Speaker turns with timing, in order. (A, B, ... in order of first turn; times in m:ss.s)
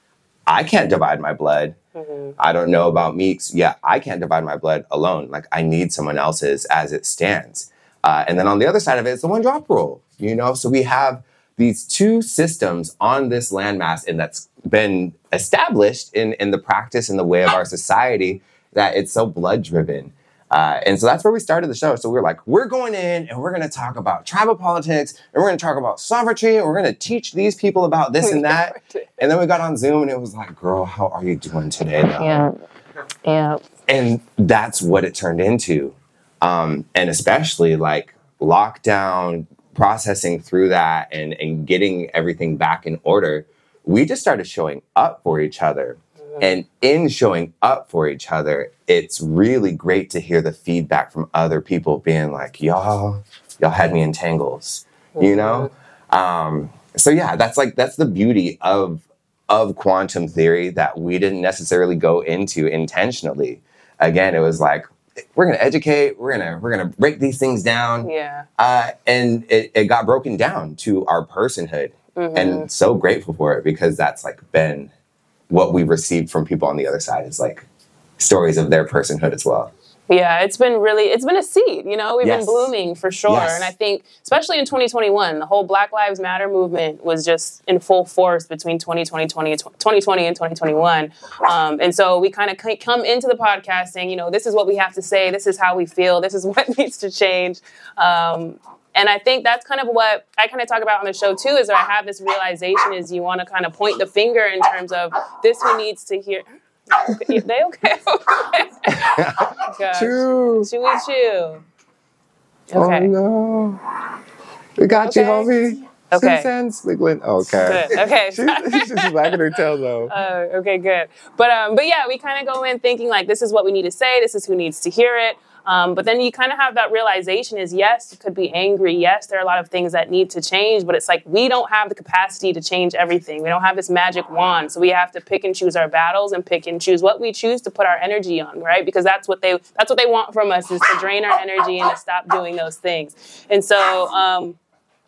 0:00.5-0:01.8 A
0:01.9-0:02.3 B
0:02.4-0:32.5 A
0:28.2-0:29.2 B
0:32.2-0:32.5 B
0:33.2-0:33.6 B
0:33.9-1:14.9 A
0:55.2-0:55.7 B
1:08.0-1:08.4 B
1:12.2-1:12.7 B
1:15.5-1:17.6 A
1:18.2-1:19.7 A
1:20.1-1:49.1 B
1:22.2-1:22.7 A
1:23.3-1:23.7 A
1:48.9-1:50.7 A
1:49.6-1:51.6 B
1:52.7-1:53.1 B
1:52.7-1:53.8 A
1:54.8-2:00.1 A
1:55.0-1:55.5 B
1:56.1-1:56.5 B
1:57.6-1:59.3 B
2:00.1-2:24.6 B